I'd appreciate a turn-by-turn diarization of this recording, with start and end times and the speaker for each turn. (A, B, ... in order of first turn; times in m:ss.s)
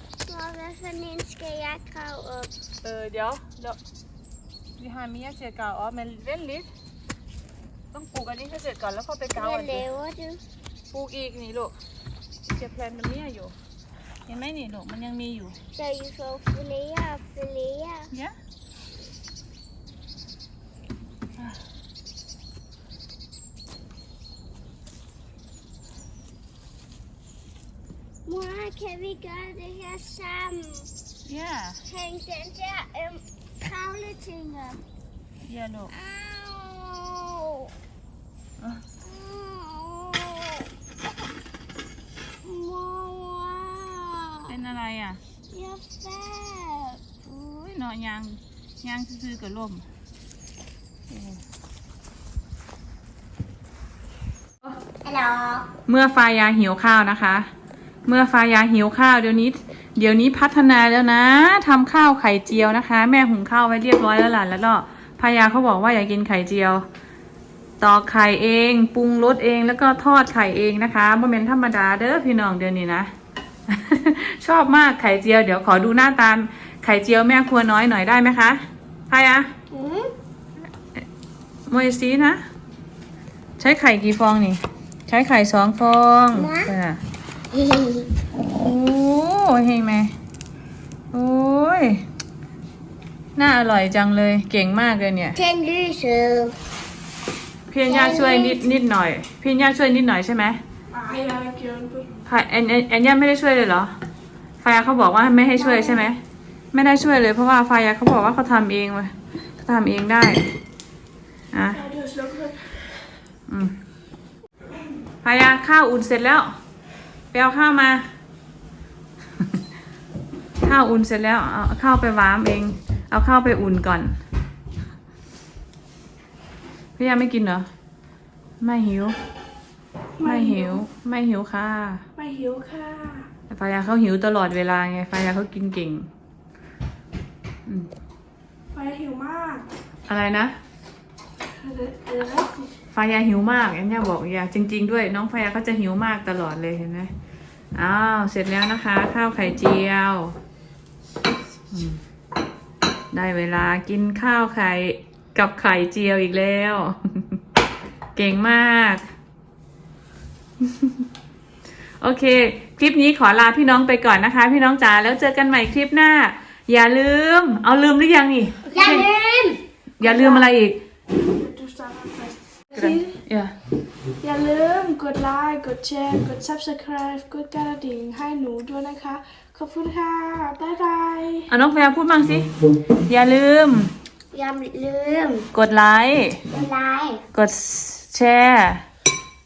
0:00.2-0:02.5 A
0:02.8-0:03.8 B
0:04.8-0:06.7 B
0:07.9-0:09.8 B
0:09.4-0:10.4 A
0:10.9-0:11.7 B
0:12.5-0:13.5 B
0:14.3-0:15.6 B
0:15.7-0:18.1 A
0:28.2-0:30.9 A
0:31.2-0:31.8 B
0:31.9-0:34.8 A
0:35.4-0:35.9 B
0:35.9-0:37.7 A
0:39.0-0:40.7 A
0:42.4-0:44.6 A
0:44.5-0:45.2 B
0:45.5-0:47.3 A
0:47.3-0:49.9 B
0:51.1-0:51.4 B
0:55.0-0:55.7 A
0:55.8-0:57.5 B
0:58.0-1:06.8 B
1:07.8-1:13.1 B
1:13.7-1:19.5 B
1:19.7-1:20.1 A
1:21.7-1:22.4 B
1:23.6-1:27.0 B
1:26.3-1:26.7 A
1:27.5-1:28.1 A
1:28.4-1:30.1 B
1:31.1-1:32.0 B
1:33.4-1:35.4 B
1:35.4-1:36.6 A
1:37.7-1:40.6 B
1:37.9-1:38.8 A
1:40.9-1:42.1 C
1:42.2-1:43.9 B
1:44.6-1:46.2 B
1:45.5-1:46.1 A
1:46.7-1:50.5 B
1:51.5-1:51.8 B
1:51.7-1:53.1 C
1:53.5-1:53.8 B
1:55.2-1:56.5 B
1:57.3-1:58.1 B
2:00.6-2:04.2 B
2:07.0-2:07.7 B
2:08.6-2:09.2 B
2:10.2-2:10.8 C
2:10.2-2:12.0 B
2:12.2-2:13.3 C
2:13.5-2:16.1 B
2:18.7-2:19.6 C
2:20.1-2:20.6 B
2:21.5-2:22.7 C
2:22.9-2:27.1 B
2:27.7-2:30.3 B
2:31.7-2:32.0 B
2:33.1-2:37.2 B
2:38.1-2:39.0 B
2:40.6-2:40.9 B
2:42.0-2:49.1 B
2:48.7-2:49.6 A
2:50.0-2:50.8 B
2:50.0-2:50.4 C
2:51.3-2:53.1 C
2:52.7-2:53.5 B
2:54.2-3:01.5 C
3:01.5-3:03.9 B
3:04.3-3:05.5 A
3:05.5-3:06.4 B
3:06.5-3:07.2 A
3:07.3-3:08.8 B